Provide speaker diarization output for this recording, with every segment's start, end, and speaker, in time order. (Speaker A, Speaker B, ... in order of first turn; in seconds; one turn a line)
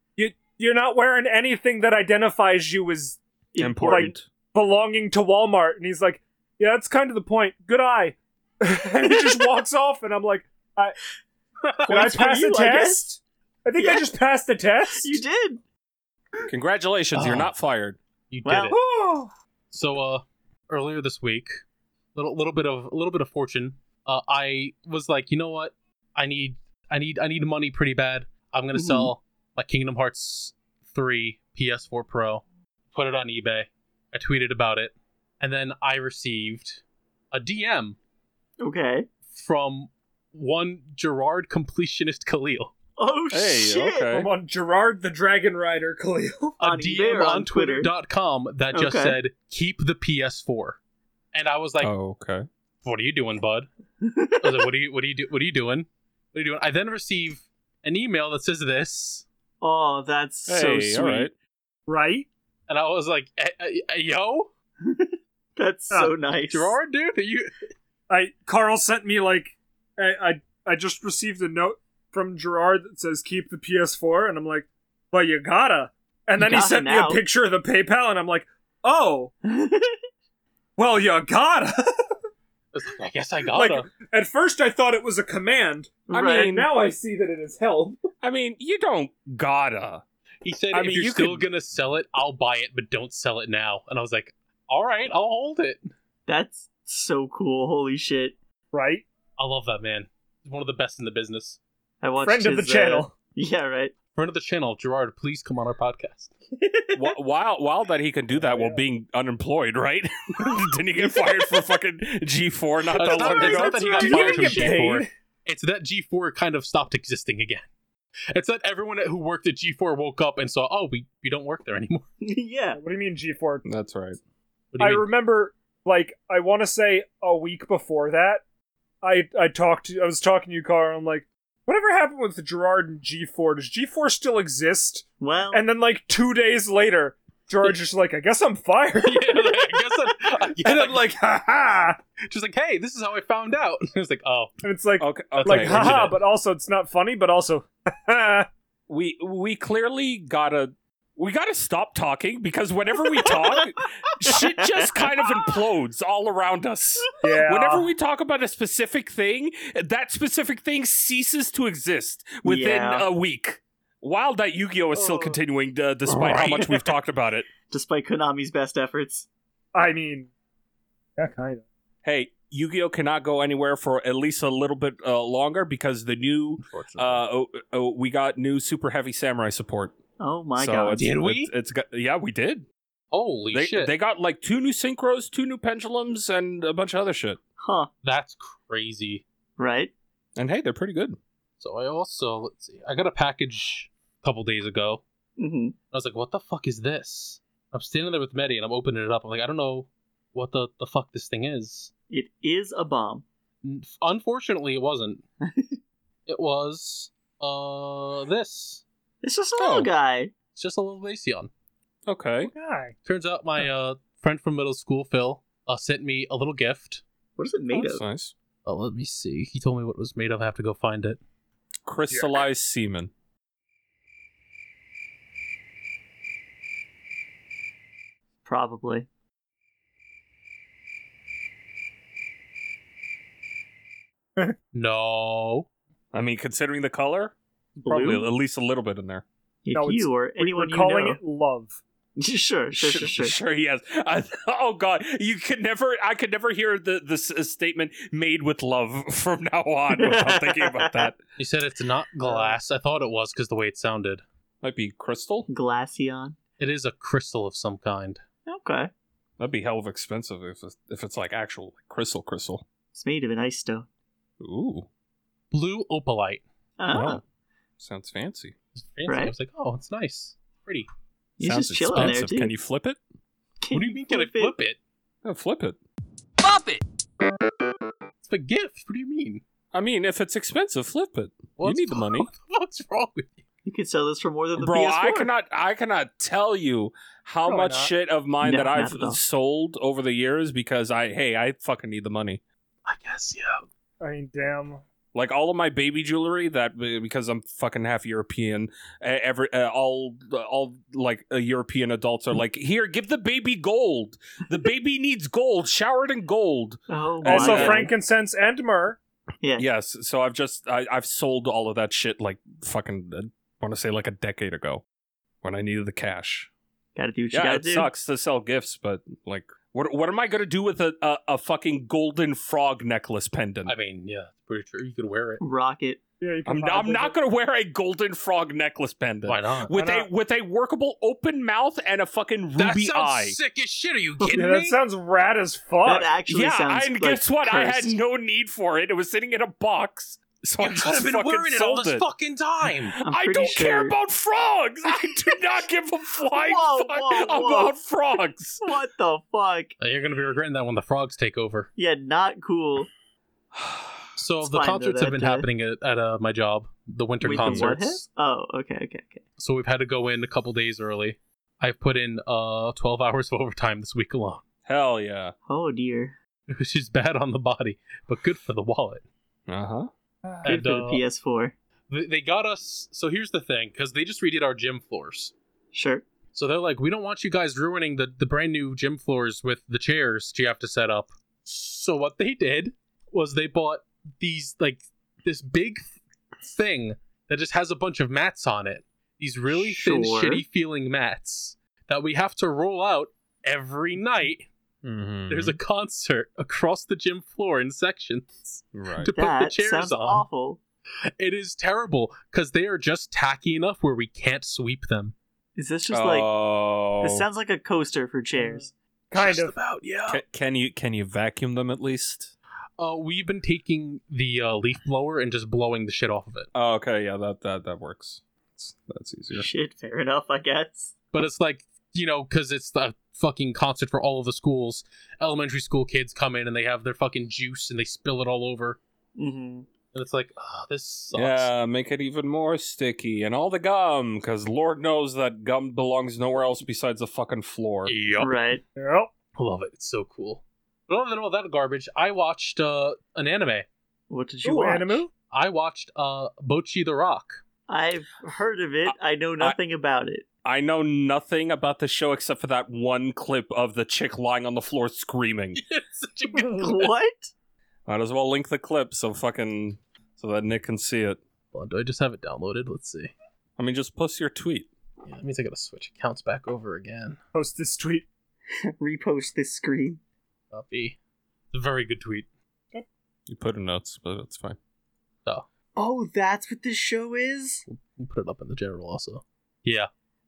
Speaker A: 0.2-3.2
Speaker B: 3.5-4.1
Speaker C: 3.6-4.2
Speaker A: 3.9-10.9
Speaker B: 9.1-9.4
Speaker B: 11.8-13.0
Speaker A: 11.9-15.2
Speaker B: 13.8-14.1
Speaker B: 14.9-15.6
Speaker C: 16.5-18.0
Speaker D: 17.1-17.5
Speaker D: 18.3-18.8
Speaker B: 18.4-18.7
Speaker A: 18.7-19.3
Speaker D: 19.7-21.6
Speaker D: 22.1-36.8
Speaker B: 28.7-29.1
Speaker D: 37.3-38.0
Speaker B: 38.6-39.1
Speaker D: 39.3-42.7
Speaker B: 43.0-44.1
Speaker C: 43.3-44.3
Speaker A: 44.1-46.6
Speaker D: 46.6-50.8
Speaker B: 46.6-47.9
Speaker B: 48.7-49.2
Speaker D: 51.3-51.9
Speaker C: 51.8-52.5
Speaker D: 52.8-53.7
Speaker B: 54.0-54.5
Speaker D: 54.4-59.2
Speaker B: 59.6-61.3
Speaker C: 60.5-61.3
Speaker A: 61.9-62.3
Speaker D: 62.7-64.5
Speaker B: 64.8-66.8
Speaker D: 66.5-67.5
Speaker A: 68.1-79.3
Speaker B: 76.4-77.2
Speaker B: 79.4-80.0
Speaker A: 80.8-81.7
Speaker D: 82.7-83.9
Speaker A: 83.5-88.0
Speaker B: 86.1-86.5
Speaker C: 86.1-86.7
Speaker C: 88.2-90.0
Speaker D: 90.4-95.9
Speaker C: 90.7-91.4
Speaker B: 96.3-98.3
Speaker A: 98.7-99.0
Speaker D: 99.4-101.6
Speaker B: 102.0-103.9
Speaker A: 102.2-103.1
Speaker D: 104.1-106.3
Speaker B: 106.5-107.1
Speaker C: 106.9-114.6
Speaker A: 108.4-108.8
Speaker D: 112.9-117.7
Speaker A: 113.0-115.1
Speaker D: 118.3-122.1
Speaker B: 122.2-122.8
Speaker A: 122.8-123.7
Speaker C: 123.7-124.2
Speaker D: 124.7-125.1
Speaker A: 124.8-128.4
Speaker A: 129.0-142.0
Speaker B: 135.2-135.6
Speaker D: 139.0-141.1
Speaker D: 142.3-144.5
Speaker A: 144.6-148.5
Speaker C: 145.0-146.1
Speaker D: 145.4-146.1
Speaker C: 148.9-167.5
Speaker B: 154.3-155.0
Speaker A: 157.2-157.9
Speaker B: 162.4-163.0
Speaker A: 164.9-165.4
Speaker D: 166.1-166.9
Speaker B: 167.7-169.3
Speaker A: 169.7-170.3
Speaker A: 171.2-171.6
Speaker C: 172.0-179.9
Speaker D: 176.6-177.2
Speaker B: 180.2-181.0
Speaker C: 180.6-182.7
Speaker D: 180.9-181.5
Speaker D: 183.1-183.9
Speaker C: 183.5-187.4
Speaker B: 187.6-187.9
Speaker D: 188.0-189.2
Speaker B: 189.6-189.9
Speaker C: 190.3-191.2
Speaker D: 191.6-195.0
Speaker B: 195.4-195.8
Speaker D: 195.9-201.9
Speaker B: 202.1-203.2
Speaker D: 203.6-205.2
Speaker B: 205.4-205.8
Speaker D: 206.3-208.8
Speaker B: 209.2-210.3
Speaker C: 209.6-209.9
Speaker D: 210.6-211.5
Speaker C: 212.1-212.5
Speaker A: 212.5-212.9
Speaker D: 213.0-217.0
Speaker B: 217.4-218.0
Speaker C: 217.7-218.3
Speaker D: 218.6-221.2
Speaker C: 221.8-223.1
Speaker A: 222.1-222.3
Speaker B: 228.4-229.1
Speaker D: 234.7-235.7
Speaker C: 236.1-237.3
Speaker B: 237.8-238.3
Speaker A: 237.9-238.2
Speaker C: 237.9-239.2
Speaker B: 239.6-241.2
Speaker A: 239.7-241.8
Speaker B: 242.2-243.3
Speaker C: 242.7-251.2
Speaker B: 249.9-251.1
Speaker D: 251.4-254.2
Speaker C: 254.6-255.5
Speaker B: 255.5-256.4
Speaker D: 256.6-258.2
Speaker B: 258.5-258.9
Speaker C: 259.4-262.6
Speaker B: 262.9-263.9
Speaker C: 264.4-264.9
Speaker D: 265.5-266.4
Speaker B: 266.8-267.2
Speaker C: 266.9-267.2
Speaker C: 267.8-268.5
Speaker D: 268.7-270.9
Speaker B: 269.1-269.3
Speaker B: 271.4-272.5
Speaker C: 271.4-273.0
Speaker B: 273.6-274.5
Speaker D: 273.7-274.8
Speaker C: 275.2-275.8
Speaker D: 278.2-279.4
Speaker C: 279.7-282.3
Speaker D: 281.6-283.4
Speaker B: 283.6-285.3
Speaker C: 284.6-292.4
Speaker A: 287.4-287.9
Speaker B: 288.4-289.2
Speaker D: 292.9-293.6
Speaker A: 294.0-294.8
Speaker C: 295.1-307.9
Speaker B: 306.9-307.9
Speaker A: 307.3-309.0
Speaker C: 309.6-314.8
Speaker C: 315.4-316.5
Speaker B: 316.9-317.9
Speaker C: 317.3-323.7
Speaker D: 323.6-325.4
Speaker B: 325.4-326.0
Speaker A: 326.2-327.1
Speaker C: 326.4-333.4
Speaker D: 329.2-329.7
Speaker A: 329.7-330.1
Speaker D: 332.6-334.8
Speaker A: 334.2-336.1
Speaker B: 335.8-337.9
Speaker C: 336.3-342.1
Speaker D: 340.6-342.9
Speaker C: 343.0-348.6
Speaker B: 343.0-343.9
Speaker B: 346.4-347.7
Speaker B: 348.6-349.7
Speaker D: 349.8-351.7
Speaker B: 351.8-352.9
Speaker C: 353.5-354.0
Speaker D: 354.1-358.0
Speaker B: 354.4-355.5
Speaker B: 357.2-359.2
Speaker C: 357.2-357.8
Speaker D: 359.4-364.4
Speaker C: 364.6-365.3
Speaker B: 365.5-366.2
Speaker D: 366.5-369.0
Speaker C: 369.5-369.9
Speaker D: 370.4-371.0
Speaker B: 370.4-371.5
Speaker D: 371.9-375.3
Speaker B: 375.7-376.1
Speaker D: 376.3-385.9
Speaker D: 386.4-394.5
Speaker B: 389.5-390.4
Speaker C: 394.8-395.6
Speaker D: 395.3-400.2
Speaker C: 398.7-399.1
Speaker B: 399.1-400.6
Speaker D: 401.2-405.1
Speaker B: 405.6-406.3
Speaker C: 405.9-407.2
Speaker B: 407.0-408.7
Speaker A: 408.4-409.5
Speaker D: 409.1-410.2
Speaker C: 410.1-412.3
Speaker D: 412.8-416.5
Speaker C: 416.5-419.5
Speaker B: 419.3-420.9
Speaker D: 421.1-428.8
Speaker B: 429.2-429.7
Speaker D: 429.9-431.5
Speaker C: 431.1-437.9
Speaker D: 437.9-438.4
Speaker B: 438.2-438.6
Speaker A: 438.8-439.1
Speaker D: 439.3-443.7
Speaker B: 444.1-445.0
Speaker A: 444.4-445.1
Speaker D: 445.3-447.4
Speaker B: 447.7-450.2
Speaker C: 448.9-449.6
Speaker C: 450.4-455.6
Speaker D: 455.5-456.9
Speaker B: 456.6-457.3
Speaker C: 457.9-461.2
Speaker D: 461.5-463.1
Speaker C: 463.6-464.7
Speaker D: 465.0-467.2
Speaker A: 467.3-468.1
Speaker B: 468.8-470.0
Speaker D: 470.5-471.0
Speaker D: 471.5-472.3
Speaker C: 473.3-474.6
Speaker B: 475.8-477.6
Speaker D: 477.7-479.9